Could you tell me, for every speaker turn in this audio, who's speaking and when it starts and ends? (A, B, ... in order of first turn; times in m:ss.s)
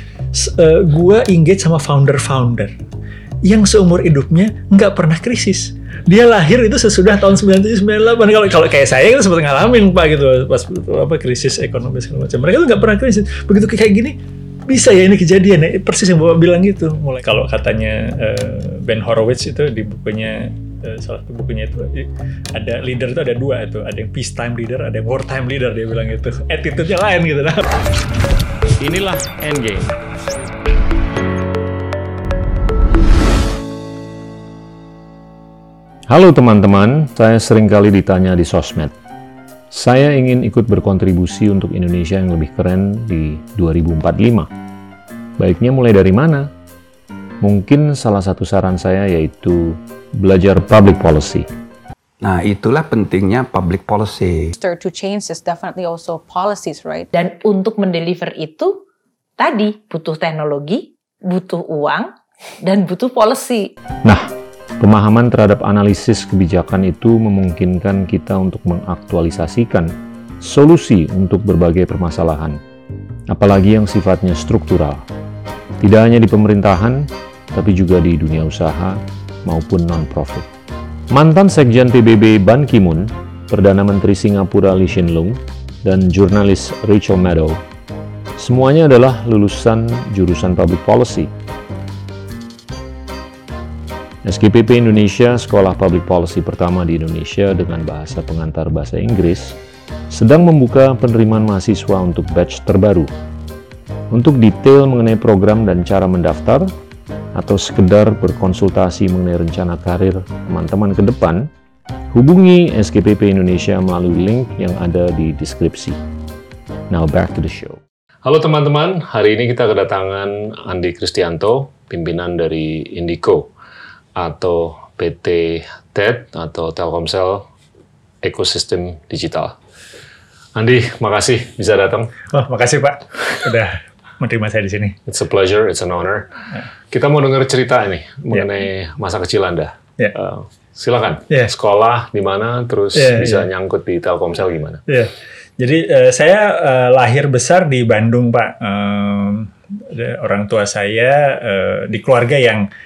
0:00.3-0:02.7 A
0:03.4-0:14.2 A
0:14.7-0:27.7 A
0:28.8-0:29.9 B
0:36.1-0:38.9 B
0:39.7-0:44.5 B
0:45.4-0:46.5 B
0:47.4-0:51.5 B
0:52.2-0:54.5 C
0:54.5-0:57.1 D
0:57.1-0:58.8 E
0:59.4-1:02.1 E
1:02.6-1:03.7 E
1:04.8-1:12.6 B
1:13.3-1:15.0 B
1:15.8-1:20.5 B
1:21.1-1:27.6 B
1:28.4-1:31.3 B
1:34.2-1:39.6 B
1:40.1-1:43.1 B
1:44.1-1:46.7 B
1:47.3-1:51.5 B
1:52.1-1:56.0 B
1:56.9-2:03.5 B
2:04.2-2:07.5 B
2:08.2-2:09.6 B
2:10.6-2:12.1 B
2:12.3-2:15.0 A
2:15.0-2:16.3 B
2:16.9-2:24.8 B
2:22.9-2:23.5 A
2:24.9-2:32.6 A